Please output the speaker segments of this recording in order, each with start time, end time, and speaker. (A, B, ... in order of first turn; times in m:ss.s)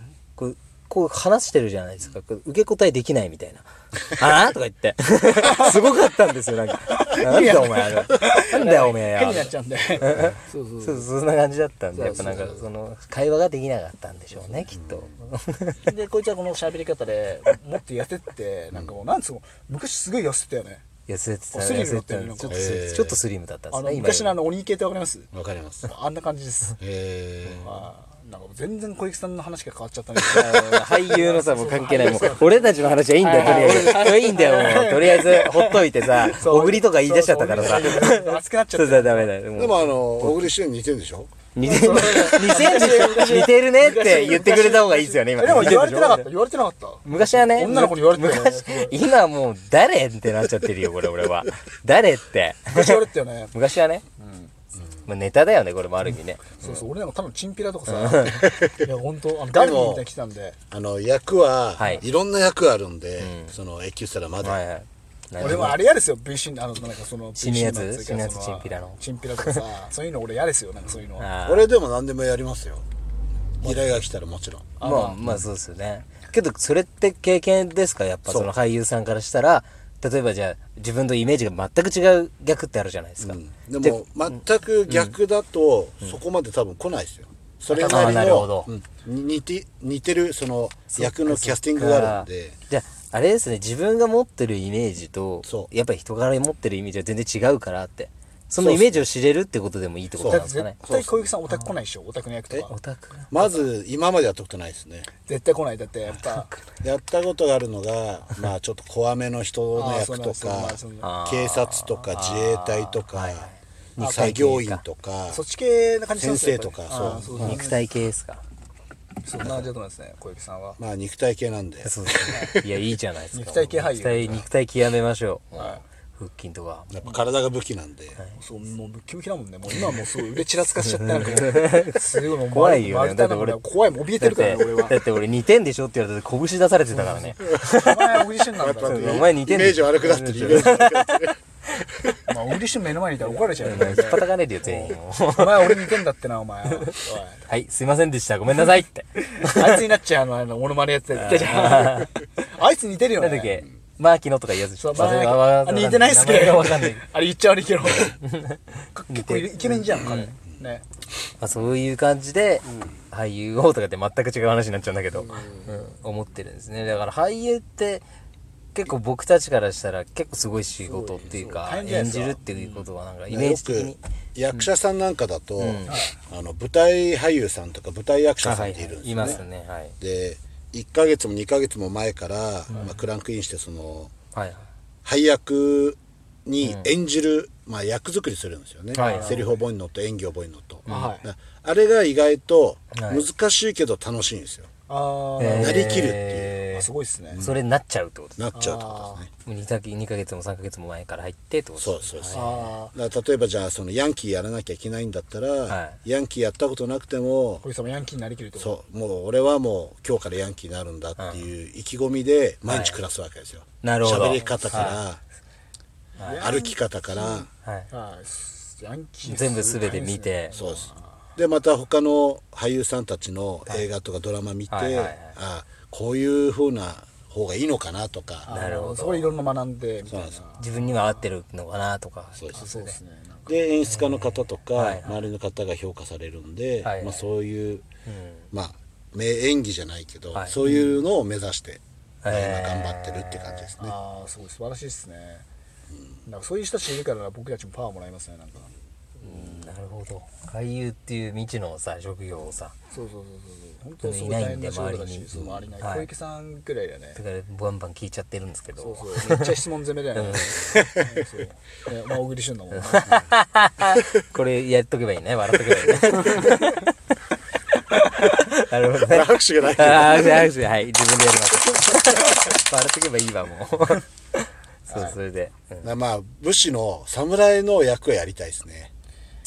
0:00.4-0:09.5 A
0:05.4-0:05.8 B
0:06.9-0:11.1 B
0:10.0-0:15.9 A
0:11.9-0:12.6 B
0:14.4-0:14.7 B
0:14.7-0:15.1 C
0:15.8-0:20.8 B
0:21.1-0:24.4 A
0:21.5-0:22.7 B
0:22.5-0:23.2 C
0:23.7-0:25.3 B
0:25.3-0:25.9 C
0:25.8-0:26.8 B
0:26.8-0:27.7 C
0:27.6-0:39.3 B
0:30.2-0:40.5 A
0:39.6-0:41.4 C
0:41.6-0:46.3 A
0:41.6-0:49.0 B
0:47.0-0:54.0 A
0:52.7-0:53.5 B
0:54.2-0:54.5 B
0:55.1-0:56.8 A
0:56.6-1:00.6 B
0:57.9-0:58.6 A
0:58.4-0:58.8 C
0:59.5-1:00.1 C
1:00.7-1:04.6 C
1:01.8-1:02.0 A
1:03.2-1:03.6 A
1:04.4-1:05.8 A
1:05.4-1:11.3 B
1:07.4-1:09.6 A
1:11.2-1:11.7 A
1:11.4-1:12.8 C
1:13.6-1:14.0 B
1:13.6-1:15.4 C
1:14.8-1:15.2 B
1:14.8-1:24.1 A
1:18.3-1:18.5 C
1:23.2-1:32.6 C
1:24.9-1:25.1 A
1:27.7-1:28.7 A
1:27.8-1:28.2 B
1:30.9-1:40.8 A
1:35.4-1:35.7 C
1:38.6-1:39.1 C
1:40.2-1:41.3 C
1:40.3-1:42.7 B
1:42.7-1:43.3 A
1:43.3-1:45.1 C
1:43.4-1:43.6 B
1:45.3-1:46.5 B
1:46.3-1:46.6 A
1:46.8-1:55.4 C
1:49.7-1:51.1 B
1:51.0-1:54.8 A
1:54.0-1:54.4 B
1:55.3-1:57.9 B
1:56.2-1:57.6 C
1:57.3-1:58.4 A
1:59.2-2:00.8 B
2:00.8-2:02.8 C
2:01.8-2:06.9 A
2:03.3-2:04.5 B
2:05.6-2:05.8 B
2:06.9-2:08.2 C
2:08.4-2:15.0 B
2:10.9-2:13.6 A
2:14.2-2:18.2 A
2:16.9-2:19.3 B
2:18.6-2:21.4 C
2:18.8-2:21.1 A
2:22.3-2:27.4 B
2:23.6-2:26.0 A
2:27.5-2:29.8 A
2:29.2-2:33.6 B
2:31.2-2:32.1 A
2:33.2-2:37.0 A
2:34.8-2:38.2 B
2:38.0-2:40.4 A
2:38.9-2:40.8 B
2:41.4-2:48.0 A
2:45.2-2:45.7 B
2:48.8-2:54.0 A
2:50.8-2:52.5 B
2:53.3-2:59.4 C
2:55.6-2:56.0 A
2:55.9-2:56.2 B
2:58.4-2:59.9 A
3:00.0-3:04.1 C
3:04.3-3:04.6 A
3:05.0-3:14.7 C
3:06.6-3:06.9 A
3:08.9-3:09.4 A
3:09.0-3:09.6 B
3:10.9-3:11.1 A
3:10.9-3:11.3 B
3:12.9-3:13.3 A
3:14.9-3:16.2 B
3:15.4-3:18.4 A
3:15.5-3:16.6 C
3:16.7-3:17.4 B
3:17.3-3:17.6 C
3:18.4-3:19.3 C
3:18.5-3:19.2 B
3:19.5-3:22.7 A
3:21.8-3:27.6 C
3:22.3-3:22.9 B
3:25.7-3:26.0 A
3:27.6-3:28.8 B
3:28.6-3:35.2 C
3:31.2-3:31.4 A
3:32.6-3:33.0 A
3:33.8-3:35.0 A
3:34.3-3:35.0 B
3:36.2-3:41.1 B
3:36.2-3:36.5 A
3:36.4-3:37.5 C
3:37.6-3:37.9 A
3:39.2-3:40.6 A
3:40.5-3:48.5 C
3:44.7-3:45.4 A
3:48.5-3:50.6 B
3:48.5-3:49.4 A
3:50.1-3:50.4 C
3:50.6-3:53.0 A
3:52.5-3:53.6 B
3:53.5-3:57.9 C
3:53.9-3:55.2 A
3:56.8-3:57.2 A
3:58.1-3:58.5 A
3:58.5-4:04.0 C
4:02.2-4:03.7 A
4:03.8-4:05.4 B
4:06.2-4:08.7 B
4:09.2-4:12.7 A
4:09.3-4:09.7 B
4:12.9-4:17.2 B
4:14.0-4:15.3 A
4:15.3-4:15.6 C
4:15.8-4:16.1 A
4:17.2-4:19.5 A
4:18.8-4:23.2 B
4:20.1-4:21.0 A
4:22.9-4:26.9 A
4:28.2-4:35.9 A
4:28.9-4:30.5 C
4:34.9-4:35.2 B
4:35.8-4:38.9 C